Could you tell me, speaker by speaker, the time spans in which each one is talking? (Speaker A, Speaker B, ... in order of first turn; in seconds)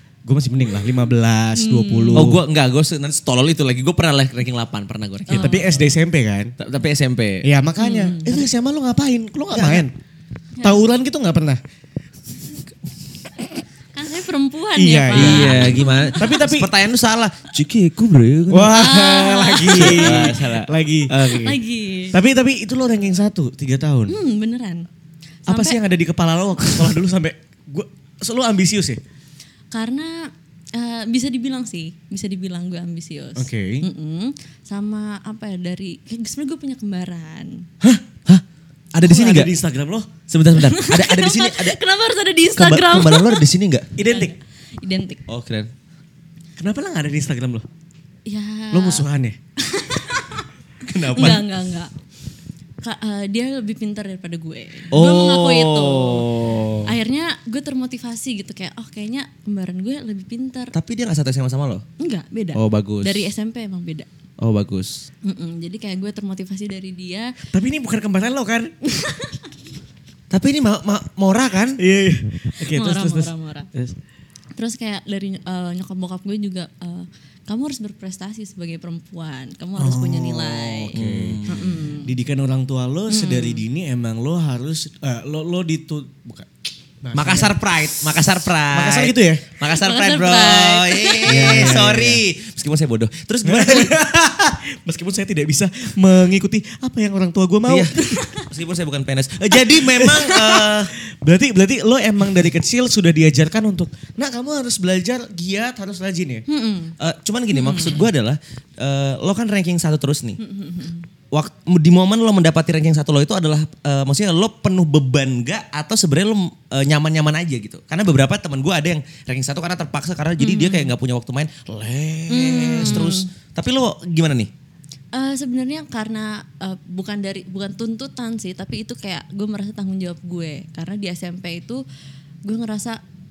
Speaker A: 0.2-2.4, 5.3-6.5, 7.4-9.9, 10.6-11.6, 14.8-16.7, 18.5-21.6, 22.1-24.2, 25.5-29.0, 33.4-33.9, 39.0-40.1, 44.0-44.3, 46.6-47.7, 48.7-49.4, 67.5-68.7, 71.8-74.0, 79.8-87.6, 88.7-89.5, 91.2-92.2, 93.5-98.1, 99.7-106.5, 122.8-123.1
Speaker B: 1.6-2.4, 5.3-6.0, 7.8-8.4, 10.6-10.8, 13.9-16.5, 18.7-20.3, 21.2-22.2, 24.1-24.9, 25.5-25.8, 29.7-37.7, 40.6-45.2, 48.3-49.0, 49.6-50.5, 51.1-51.9, 52.8-56.3, 56.9-60.7, 62.0-64.1, 65.2-67.3, 68.9-69.4, 72.7-73.7, 74.6-81.0, 81.5-82.1, 83.1-83.6, 89.7-91.8, 98.0-98.5, 106.5-107.0, 107.5-108.1, 110.4-111.1, 120.4-120.9, 122.3-123.3, 125.1-131.8, 132.4-133.0
Speaker C: 2.1-5.5, 6.6-7.5, 9.5-9.9, 15.1-18.8, 19.7-21.5, 37.8-38.4, 38.9-39.5, 40.3-41.8, 42.6-43.9, 45.3-45.7, 50.9-51.5, 54.9-56.9, 60.7-61.9, 62.5-63.2, 64.4-65.1, 70.3-71.8, 80.9-81.8, 87.1-93.9, 97.7-100.9, 107.0-110.4, 111.3-124.5